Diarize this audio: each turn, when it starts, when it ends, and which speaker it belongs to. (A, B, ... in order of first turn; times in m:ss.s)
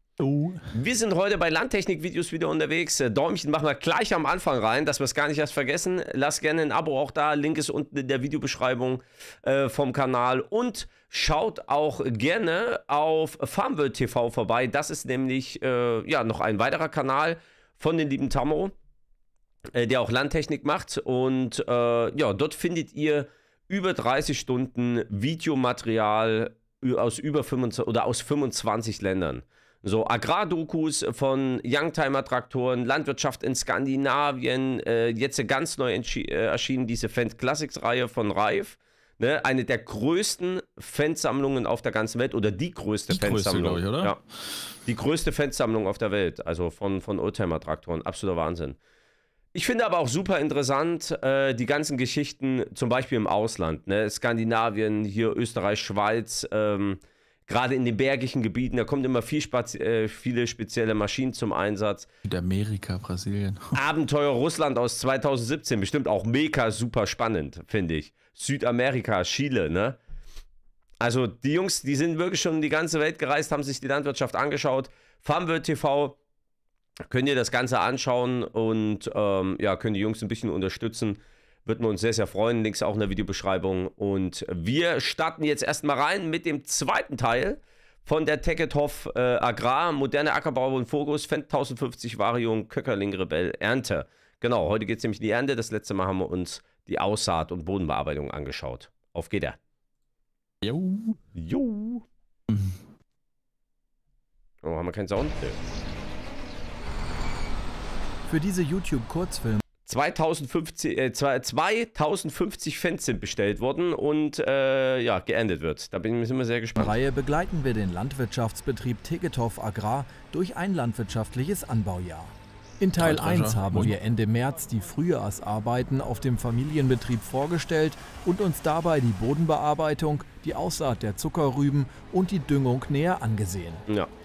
0:00.2-0:00.7 A
0:00.7-0:18.7 B
0:19.7-0:44.2 B
0:43.1-0:44.6 A
0:44.8-0:48.8 B
0:49.5-1:02.1 B
1:02.2-1:03.7 A
1:03.7-1:10.0 B
1:11.0-1:16.2 B
1:17.1-1:39.6 B
1:40.6-1:41.2 A
1:41.3-1:42.0 B
1:42.5-1:42.8 A
1:44.6-1:45.6 B
1:48.2-1:49.6 C
1:49.8-1:57.0 B
1:56.8-2:13.8 C
2:03.0-2:04.0 A